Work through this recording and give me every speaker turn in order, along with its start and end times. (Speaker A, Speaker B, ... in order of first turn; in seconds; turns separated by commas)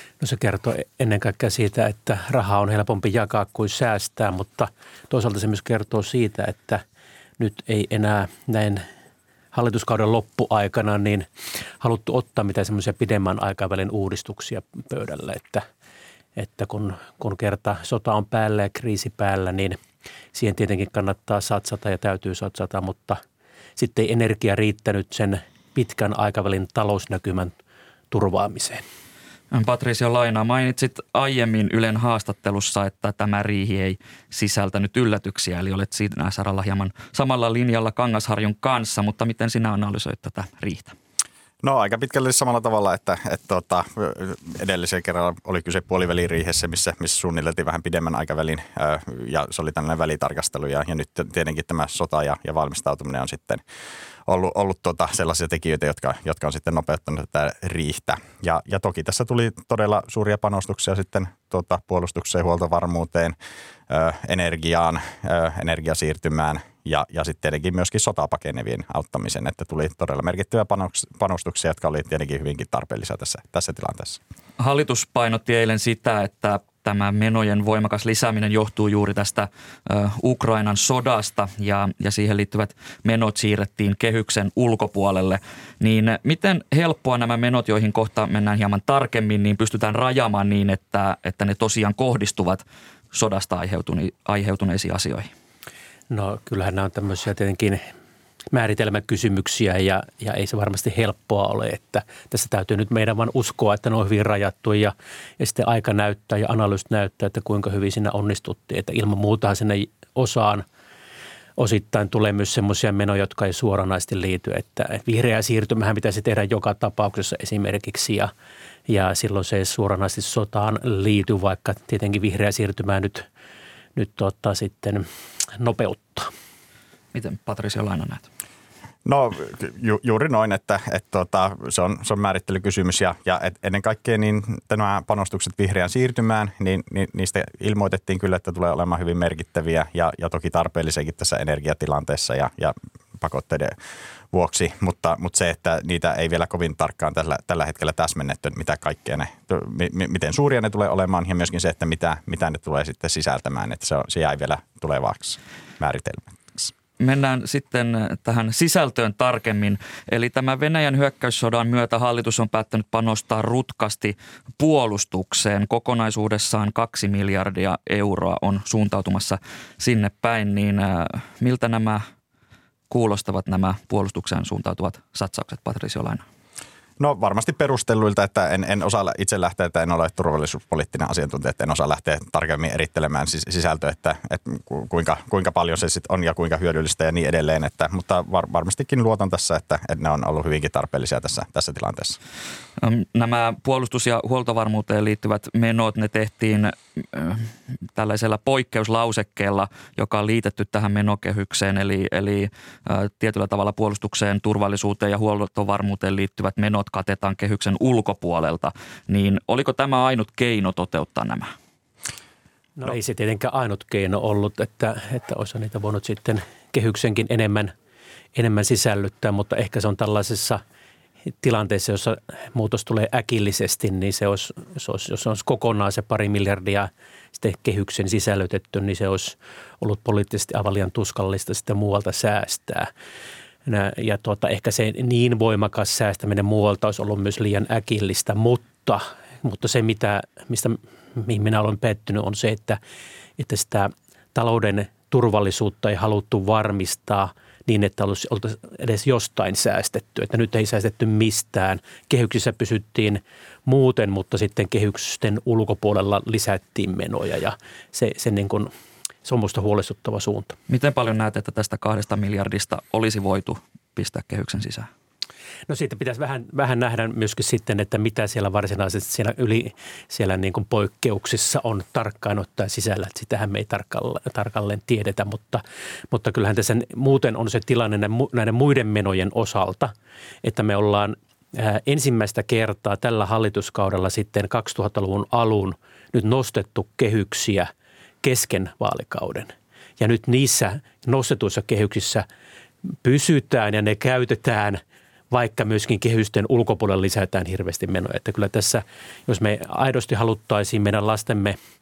Speaker A: 0.2-6.8, Speaker A: 7.4-8.9, Speaker A: 9.5-15.7, Speaker A: 16.4-19.8, Speaker A: 20.3-23.2, Speaker A: 23.8-27.6, Speaker A: 28.1-28.8, Speaker B: 29.5-41.0, Speaker C: 41.6-53.6, Speaker C: 54.3-63.4, Speaker C: 63.9-74.2, Speaker B: 74.6-95.3, Speaker A: 96.1-97.8, Speaker A: 98.5-110.7, Speaker A: 111.6-118.3, Speaker A: 118.9-123.3, Speaker A: 124.0-126.3, Speaker B: 127.1-128.3, Speaker C: 129.1-143.8, Speaker C: 144.3-156.7, Speaker B: 157.0-172.0, Speaker B: 172.9-176.2, Speaker C: 177.0-192.2, Speaker B: 192.8-211.5, Speaker A: 212.8-217.7, Speaker A: 218.3-220.6, Speaker A: 221.4-232.9, Speaker A: 233.7-242.8, Speaker A: 243.4-258.7, Speaker A: 259.2-260.6, Speaker B: 260.7-264.9, Speaker A: 265.7-279.9, Speaker A: 280.4-287.7, Speaker A: 288.2-292.3, Speaker A: 293.0-301.6